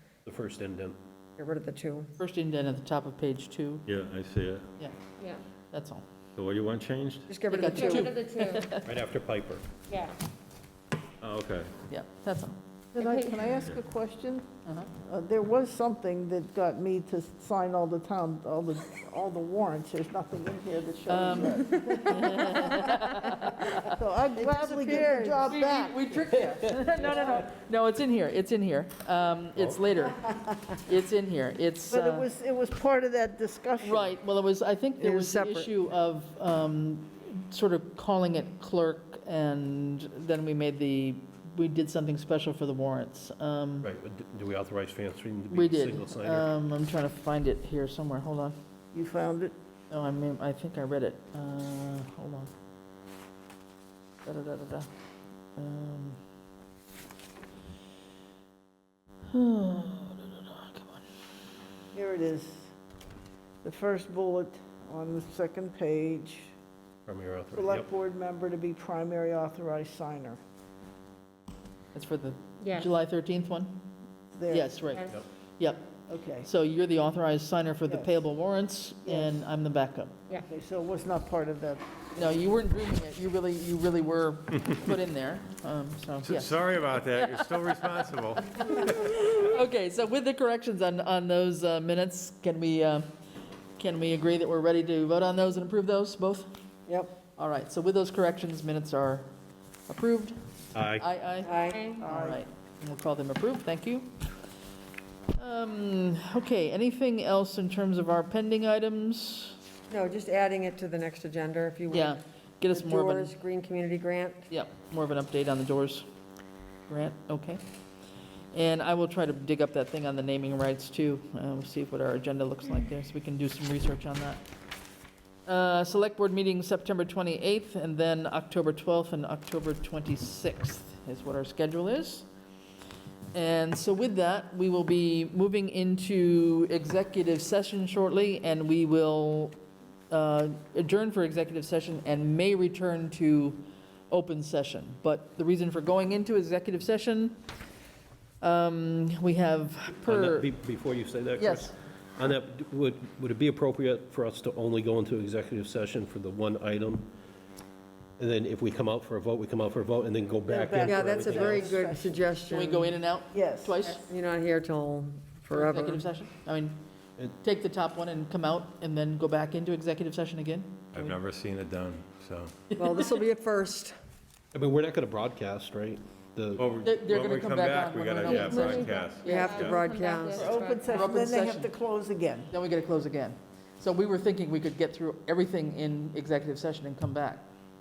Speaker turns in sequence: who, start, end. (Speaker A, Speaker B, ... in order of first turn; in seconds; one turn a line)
Speaker A: 0.3-1.0
Speaker B: 1.4-2.1
Speaker C: 2.2-3.9
Speaker D: 3.9-4.7
Speaker C: 5.7-6.0
Speaker D: 6.4-7.3
Speaker B: 7.3-8.1
Speaker E: 7.5-8.7
Speaker C: 7.5-8.9
Speaker D: 8.8-9.7
Speaker E: 9.9-10.2
Speaker D: 11.2-11.7
Speaker C: 11.9-12.6
Speaker F: 12.9-14.5
Speaker E: 13.0-13.6
Speaker F: 15.1-23.1
Speaker C: 21.1-23.9
Speaker F: 23.8-26.0
Speaker B: 24.4-25.5
Speaker C: 25.4-32.3
Speaker F: 31.9-34.1
Speaker C: 33.8-43.9
Speaker B: 35.0-35.7
Speaker A: 43.8-46.5
Speaker C: 45.5-48.6
Speaker F: 48.9-49.5
Speaker C: 49.9-52.5
Speaker C: 54.2-54.9
Speaker C: 55.6-56.2
Speaker C: 59.3-61.1
Speaker F: 61.9-62.7
Speaker F: 63.6-66.5
Speaker A: 67.1-67.9
Speaker F: 67.5-70.4
Speaker C: 71.9-73.9
Speaker E: 72.6-72.9
Speaker F: 74.3-74.8
Speaker C: 74.5-75.1
Speaker E: 74.9-75.2
Speaker C: 75.6-80.1
Speaker F: 76.1-76.5
Speaker F: 77.9-78.2
Speaker F: 79.0-79.3
Speaker F: 80.5-81.8
Speaker C: 82.2-93.1
Speaker D: 86.2-88.8
Speaker C: 93.8-96.5
Speaker B: 96.9-97.1
Speaker C: 97.4-99.3
Speaker C: 99.9-100.4
Speaker D: 100.7-101.0
Speaker C: 100.9-104.2
Speaker B: 101.4-101.8
Speaker E: 101.7-102.0
Speaker F: 102.0-102.4
Speaker C: 105.4-109.6
Speaker B: 109.9-112.2
Speaker C: 111.9-113.3
Speaker B: 112.7-114.5
Speaker C: 114.5-116.0
Speaker C: 116.9-117.6
Speaker C: 118.5-124.4
Speaker C: 125.5-132.3
Speaker C: 133.3-139.6
Speaker C: 140.1-147.4
Speaker C: 148.4-150.5
Speaker A: 150.1-157.1
Speaker C: 151.4-151.8
Speaker A: 158.2-161.6
Speaker F: 160.5-162.2
Speaker B: 160.8-163.0
Speaker C: 162.5-164.0
Speaker F: 163.3-163.8
Speaker B: 164.1-166.1
Speaker C: 165.5-166.8
Speaker C: 167.4-171.2
Speaker D: 170.9-172.6
Speaker C: 172.8-173.1
Speaker B: 172.8-173.9
Speaker A: 174.5-176.7
Speaker D: 176.6-179.8
Speaker C: 176.8-179.3
Speaker E: 178.2-181.2
Speaker B: 179.2-180.5
Speaker F: 180.3-182.5
Speaker C: 180.9-181.7
Speaker C: 182.5-187.5